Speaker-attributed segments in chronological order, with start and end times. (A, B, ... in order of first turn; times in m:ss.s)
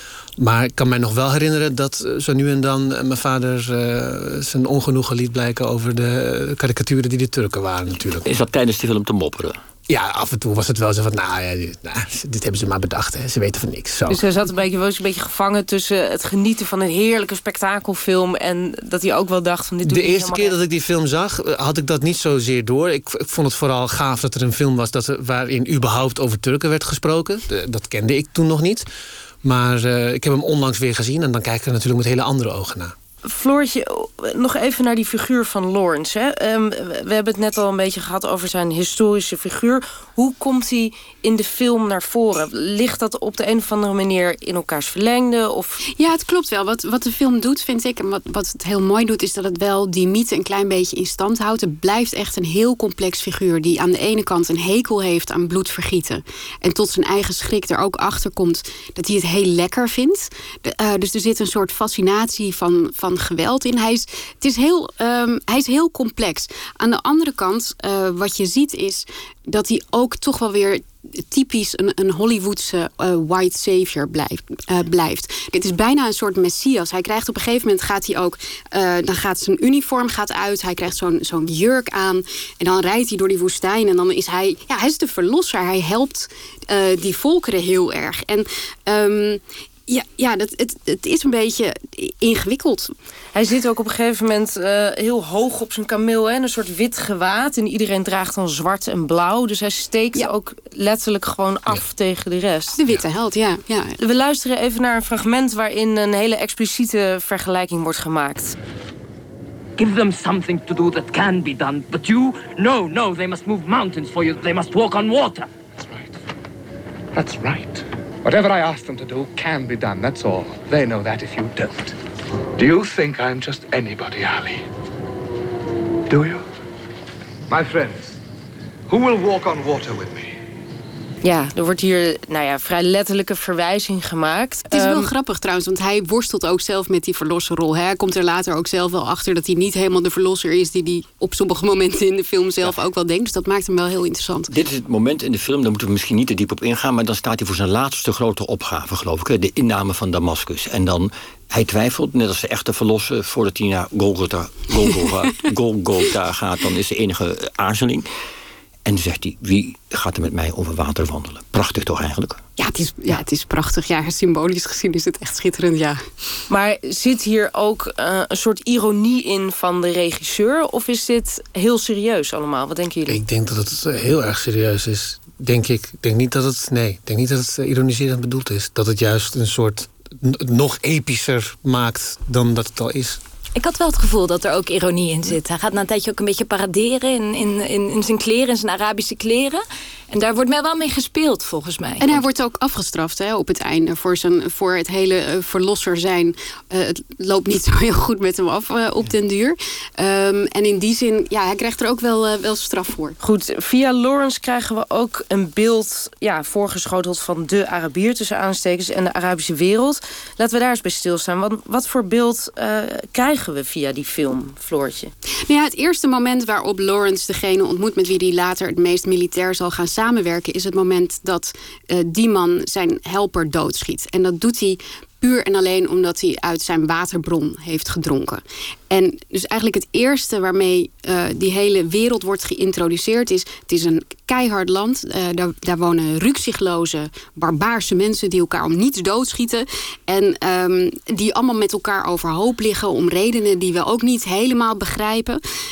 0:00.4-0:08.3 A
0:08.2-0:09.6 B
0:09.9-0:14.2 A
0:14.1-0:20.6 C
0:19.8-0:28.8 A
0:29.4-0:32.9 A
0:33.2-0:45.8 C
0:46.0-1:32.9 D
1:33.3-1:42.8 C
1:42.7-1:44.0 D
1:44.0-1:48.6 C
1:49.8-1:55.5 E
1:57.1-2:02.0 F
2:02.6-2:04.6 F
2:06.1-2:06.4 F
2:07.5-2:08.2 F
2:08.9-2:10.4 F
2:11.2-2:15.1 C
2:14.7-2:24.5 D
2:24.5-2:38.1 B
2:38.8-2:42.4 B
2:42.6-2:46.0 D
2:46.5-2:53.2 C
2:53.1-3:03.2 A
3:03.5-3:12.2 G
3:12.0-3:23.2 D
3:23.2-3:35.1 C
3:35.5-4:05.4 D